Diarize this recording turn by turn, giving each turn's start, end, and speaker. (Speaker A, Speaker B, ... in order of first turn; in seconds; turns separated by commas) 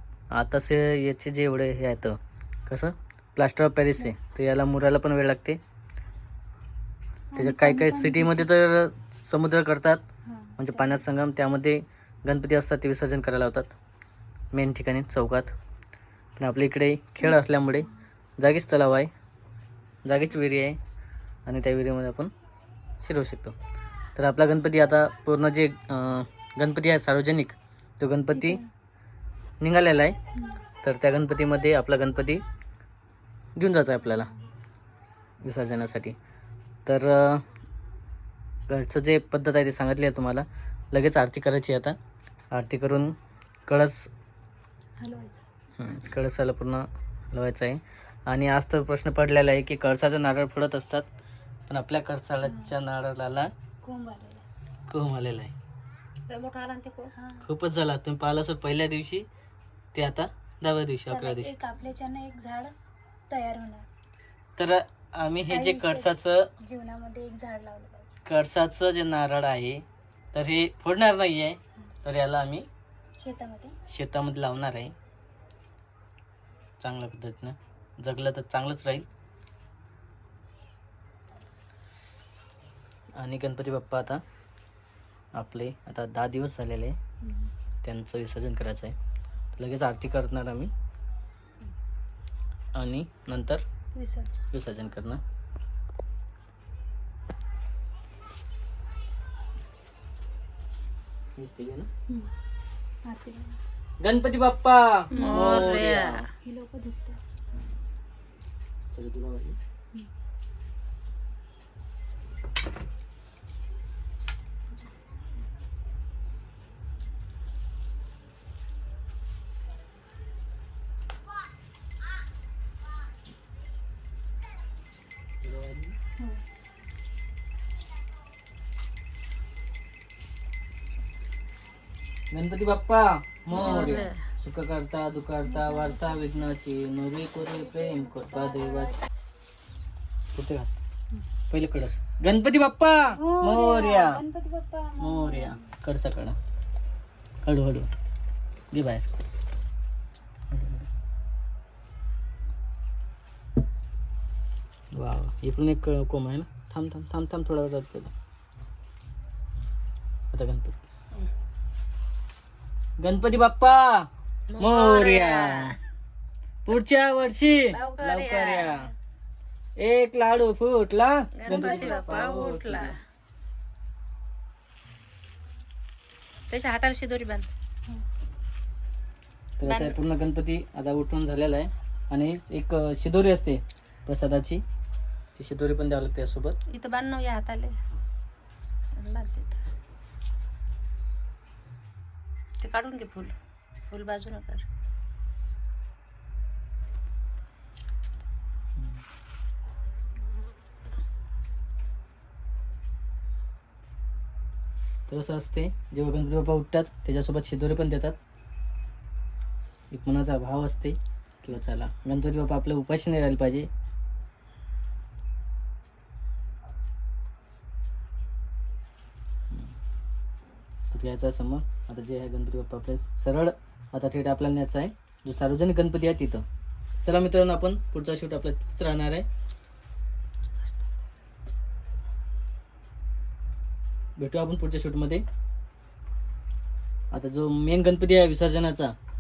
Speaker A: 0.3-5.6, Speaker B: 7.3-8.5, Speaker A: 7.4-10.0, Speaker B: 10.2-11.0, Speaker A: 10.6-13.7, Speaker A: 14.5-15.5, Speaker A: 16.4-19.1, Speaker A: 20.1-20.8, Speaker A: 21.5-22.3, Speaker A: 23.0-23.6, Speaker A: 24.2-28.6, Speaker B: 28.3-28.7, Speaker A: 29.6-30.2, Speaker B: 30.3-30.6, Speaker A: 30.8-32.4, Speaker A: 33.6-34.3, Speaker A: 35.4-36.1, Speaker A: 36.9-37.5, Speaker A: 38.7-42.0, Speaker A: 42.5-43.1, Speaker A: 43.7-44.1, Speaker B: 45.0-45.4, Speaker A: 45.8-51.1, Speaker A: 51.7-53.5, Speaker B: 52.4-52.7, Speaker B: 53.8-54.5, Speaker A: 54.9-55.5, Speaker C: 56.3-57.1, Speaker B: 57.1-57.5, Speaker A: 57.4-59.3, Speaker A: 60.0-61.6, Speaker B: 61.1-62.7, Speaker B: 63.3-63.9, Speaker A: 64.6-66.5, Speaker B: 65.5-68.2, Speaker A: 68.3-72.7, Speaker B: 73.2-73.8, Speaker A: 73.9-74.9, Speaker A: 76.8-79.1, Speaker A: 83.2-84.2, Speaker A: 85.4-87.0, Speaker B: 87.2-87.5, Speaker A: 87.8-89.0, Speaker A: 89.6-90.7, Speaker A: 92.8-93.6, Speaker B: 94.0-94.4, Speaker A: 94.5-95.2, Speaker A: 101.4-101.9, Speaker B: 103.0-103.6, Speaker A: 104.0-106.2, Speaker B: 105.1-105.4, Speaker C: 105.1-106.3, Speaker B: 106.4-107.2, Speaker A: 108.9-109.6, Speaker A: 125.4-125.9, Speaker B: 126.2-126.4, Speaker A: 132.3-139.0, Speaker C: 133.5-134.2, Speaker B: 135.5-136.2, Speaker A: 140.3-140.8, Speaker A: 141.5-144.2, Speaker B: 143.1-145.7, Speaker A: 145.0-146.4, Speaker A: 147.4-147.9, Speaker A: 148.7-149.1, Speaker A: 150.5-150.9, Speaker A: 154.9-158.1, Speaker A: 160.3-160.8, Speaker A: 163.0-165.8, Speaker C: 164.5-165.8, Speaker A: 166.7-168.9, Speaker C: 167.7-168.9, Speaker A: 169.8-172.9, Speaker C: 171.4-173.0, Speaker B: 171.5-171.9, Speaker C: 176.5-177.5, Speaker A: 179.6-184.6, Speaker C: 179.6-180.0, Speaker A: 185.3-186.6, Speaker C: 186.7-187.8, Speaker C: 189.0-189.6, Speaker C: 192.6-193.3, Speaker C: 193.9-194.6, Speaker A: 205.1-208.2, Speaker A: 209.9-213.7, Speaker A: 220.9-226.4, Speaker A: 227.0-229.3, Speaker A: 234.2-235.2, Speaker A: 237.1-238.9